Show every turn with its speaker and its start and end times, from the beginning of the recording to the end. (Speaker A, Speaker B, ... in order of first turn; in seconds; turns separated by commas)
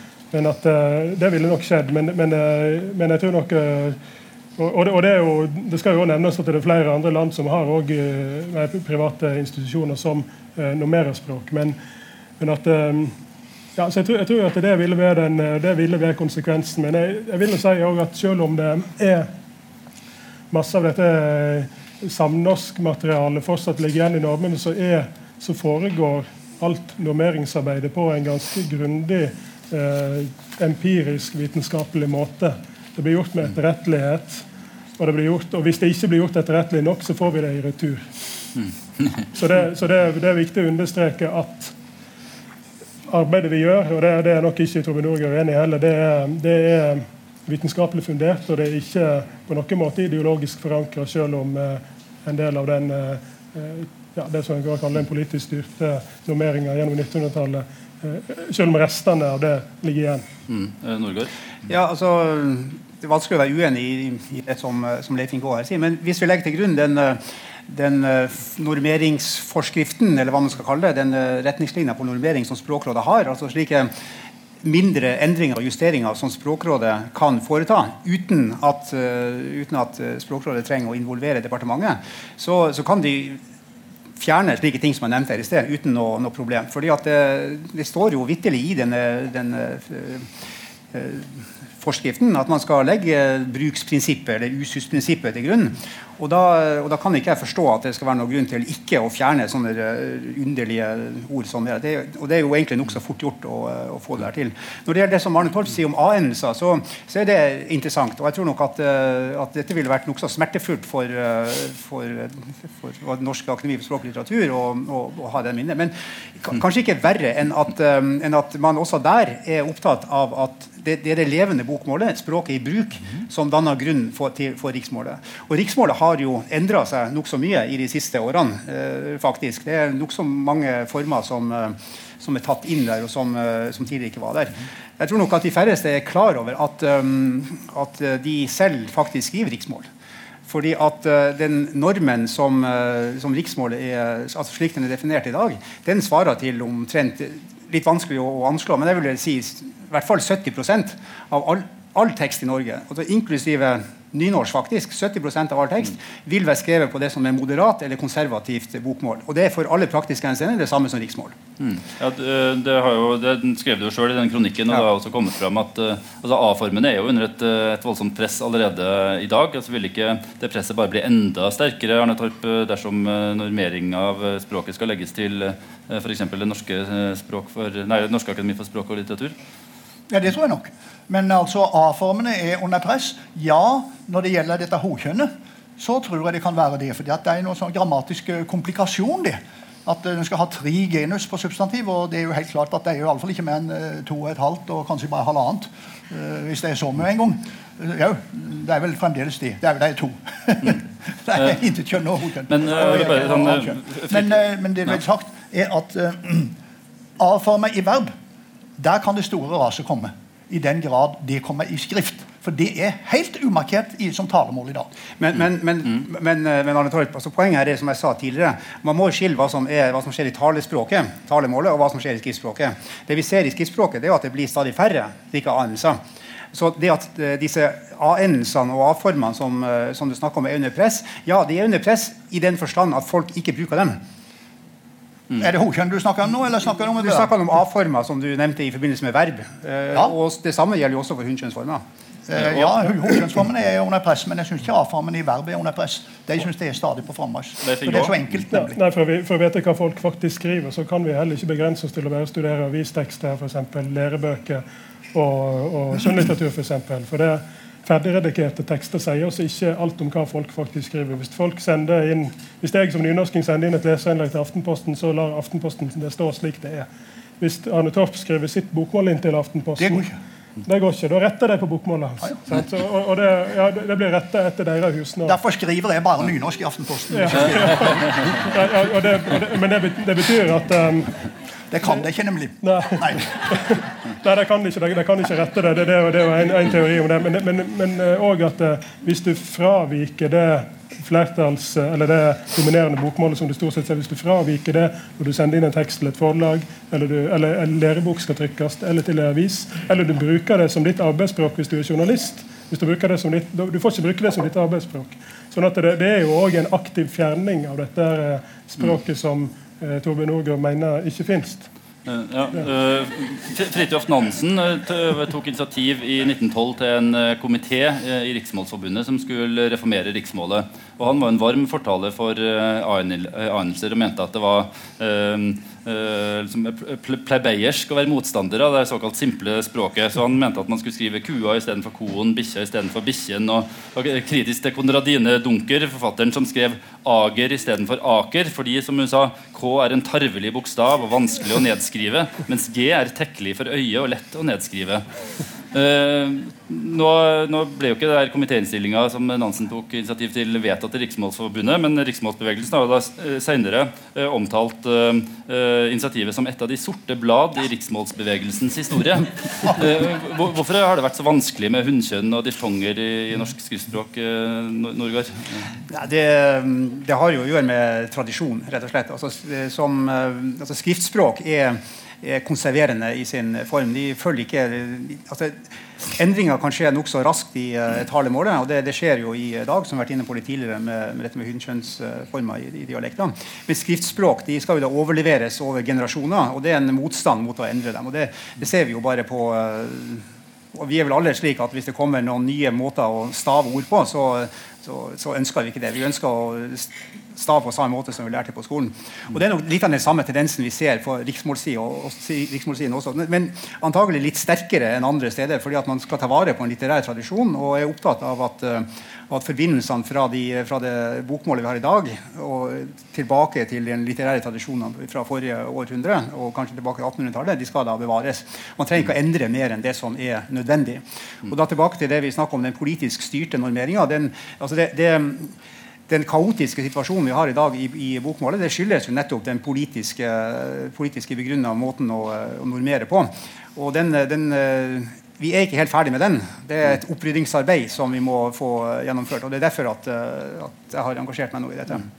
Speaker A: 0.3-4.0, Speaker A: 4.6-11.8, Speaker A: 12.4-13.1, Speaker A: 13.8-19.3, Speaker A: 20.5-34.4, Speaker A: 35.0-38.1, Speaker A: 39.3-41.7, Speaker A: 43.1-60.2, Speaker B: 60.5-61.3, Speaker C: 61.7-73.9, Speaker C: 74.6-83.4, Speaker C: 84.2-90.3, Speaker C: 90.9-139.9, Speaker C: 140.5-161.3, Speaker B: 161.6-179.3, Speaker D: 180.1-206.6, Speaker B: 202.5-204.3, Speaker D: 207.2-208.1, Speaker D: 208.8-214.9, Speaker C: 215.2-226.0, Speaker C: 226.5-234.0, Speaker D: 235.3-237.3, Speaker C: 237.0-241.8, Speaker D: 242.3-248.8, Speaker B: 247.6-248.2, Speaker A: 248.5-266.9, Speaker A: 267.4-270.1, Speaker D: 269.8-270.1, Speaker A: 270.6-275.4, Speaker D: 275.2-278.2, Speaker A: 277.1-281.1, Speaker D: 281.7-283.3, Speaker A: 282.6-311.6, Speaker B: 312.1-345.0, Speaker B: 345.7-365.6, Speaker C: 365.9-425.5, Speaker C: 426.1-442.1